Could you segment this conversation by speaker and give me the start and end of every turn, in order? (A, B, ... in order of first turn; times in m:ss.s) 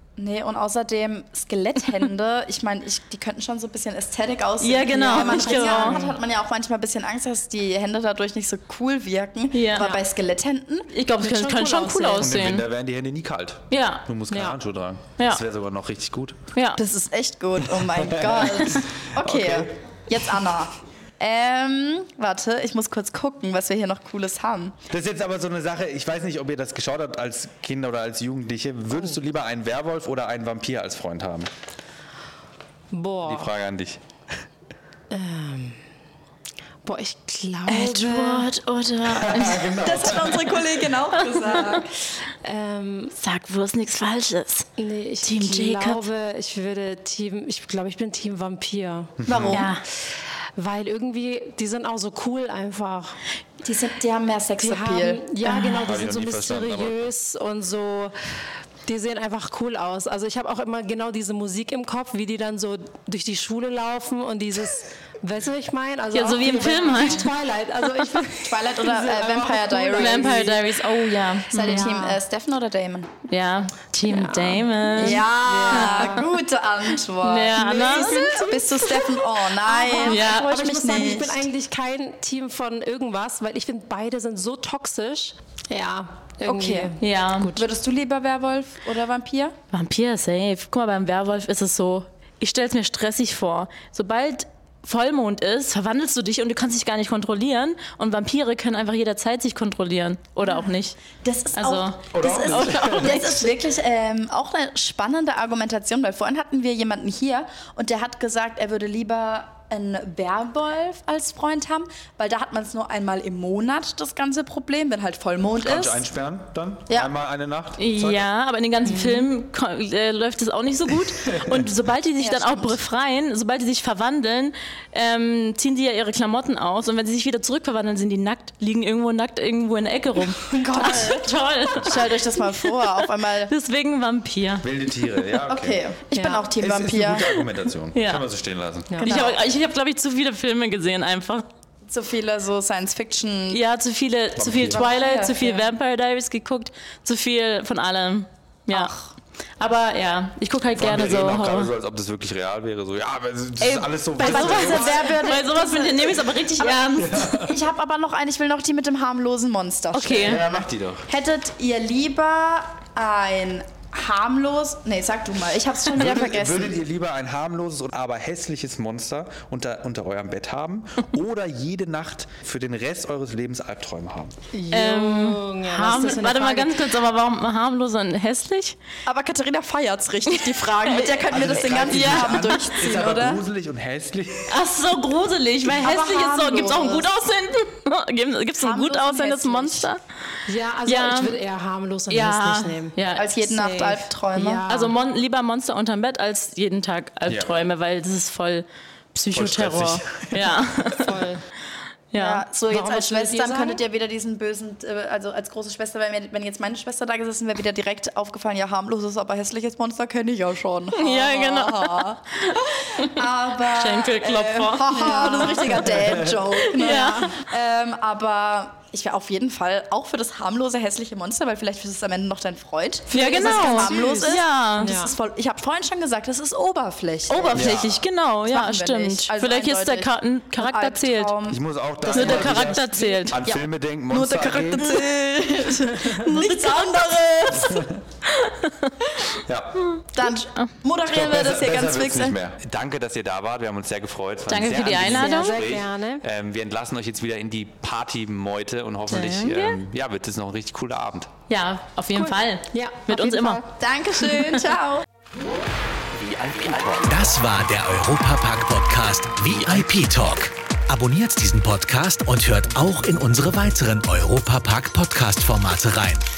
0:00.2-0:10.9 A
0:04.6-0:06.0 B
0:04.9-0:06.2 C
0:09.5-0:09.9 B
0:09.8-0:10.0 C
0:10.9-0:12.6 B
0:11.2-0:12.3 C
0:12.2-0:16.4 D
0:13.7-0:14.0 B
0:14.3-0:14.6 C
0:16.6-0:16.8 B
0:16.8-0:24.8 A
0:17.6-0:19.8 D
0:24.9-0:31.5 D
0:32.9-0:33.5 C
0:33.2-0:34.0 D
0:35.1-0:35.8 C
0:36.8-0:38.5 C
0:37.7-0:39.8 B
0:39.1-0:40.8 D
0:39.8-0:41.9 A
0:41.2-0:41.8 B
0:42.4-0:43.2 C
0:43.2-0:44.7 B
0:44.8-0:49.2 C
0:45.2-0:46.0 B
0:49.2-0:49.6 D
0:49.3-0:49.7 A
0:49.5-0:49.8 B
0:50.6-0:53.2 C
0:53.6-0:55.2 A
0:54.6-0:58.1 C
0:55.4-0:55.9 B
0:55.8-0:57.1 D
0:58.9-1:10.4 C
1:06.1-1:07.3 B
1:06.5-1:07.1 A
1:08.4-1:10.6 A
1:10.0-1:11.9 B
1:11.5-1:13.1 A
1:11.6-1:12.2 C
1:13.3-1:16.2 B
1:14.1-1:16.3 C
1:15.0-1:21.5 A
1:17.2-1:18.5 B
1:17.6-1:27.7 C
1:20.0-1:20.5 B
1:26.5-1:27.0 A
1:27.0-1:27.6 B
1:27.6-1:29.6 A
1:29.7-1:41.0 B
1:40.4-1:56.0 A
1:41.6-1:43.6 B
1:42.1-1:43.2 D
1:55.6-1:58.2 D
1:57.8-2:14.7 B
1:58.8-1:59.3 C
2:01.3-2:01.7 D
2:02.2-2:02.8 A
2:10.5-2:13.5 A
2:10.7-2:11.1 C
2:14.6-2:15.8 D
2:15.5-2:17.4 A
2:16.1-2:16.5 C
2:16.6-2:19.0 D
2:17.9-2:18.2 B
2:18.9-2:19.2 C
2:19.0-2:21.4 B
2:19.0-2:19.4 A
2:21.9-2:23.6 A
2:23.5-2:28.9 B
2:24.4-2:24.8 D
2:24.7-2:25.7 A
2:28.7-2:29.1 A
2:29.6-2:31.7 B
2:30.8-2:35.1 D
2:33.6-2:37.3 B
2:34.2-2:46.8 A
2:37.0-2:37.6 D
2:39.9-2:40.4 B
2:40.2-2:41.1 D
2:45.9-2:54.3 D
2:54.5-2:56.9 C
2:54.7-2:58.8 B
2:59.1-3:03.4 A
3:00.3-3:02.6 B
3:01.3-3:04.5 D
3:04.5-3:10.0 B
3:05.6-3:07.1 A
3:08.6-3:09.9 A
3:10.5-3:15.0 C
3:10.9-3:11.4 B
3:12.1-3:13.3 B
3:13.2-3:14.6 A
3:14.7-3:21.1 B
3:17.3-3:17.5 D
3:19.3-3:21.1 D
3:21.0-3:21.4 C
3:22.1-3:23.8 B
3:22.2-3:57.9 A
3:31.0-3:35.8 B
3:34.9-3:35.9 C
3:35.9-3:36.4 D
3:36.5-3:37.3 B
3:36.8-3:37.4 C
3:43.1-3:45.0 B
3:43.1-3:45.1 C
3:47.3-3:51.4 B
3:47.5-3:47.9 D
3:51.5-3:55.0 D
3:52.1-3:53.4 B
3:54.8-3:57.7 B
3:57.6-3:58.0 D
3:58.3-3:59.0 B
3:59.4-3:59.8 D
3:59.8-4:00.7 B
4:00.1-4:02.4 A
4:01.0-4:11.3 D
4:04.5-4:05.6 B
4:05.0-4:06.2 C
4:09.1-4:09.8 B
4:11.5-4:13.6 B
4:12.2-4:13.7 C
4:13.7-4:15.0 A
4:14.2-4:14.6 B
4:16.2-4:26.2 E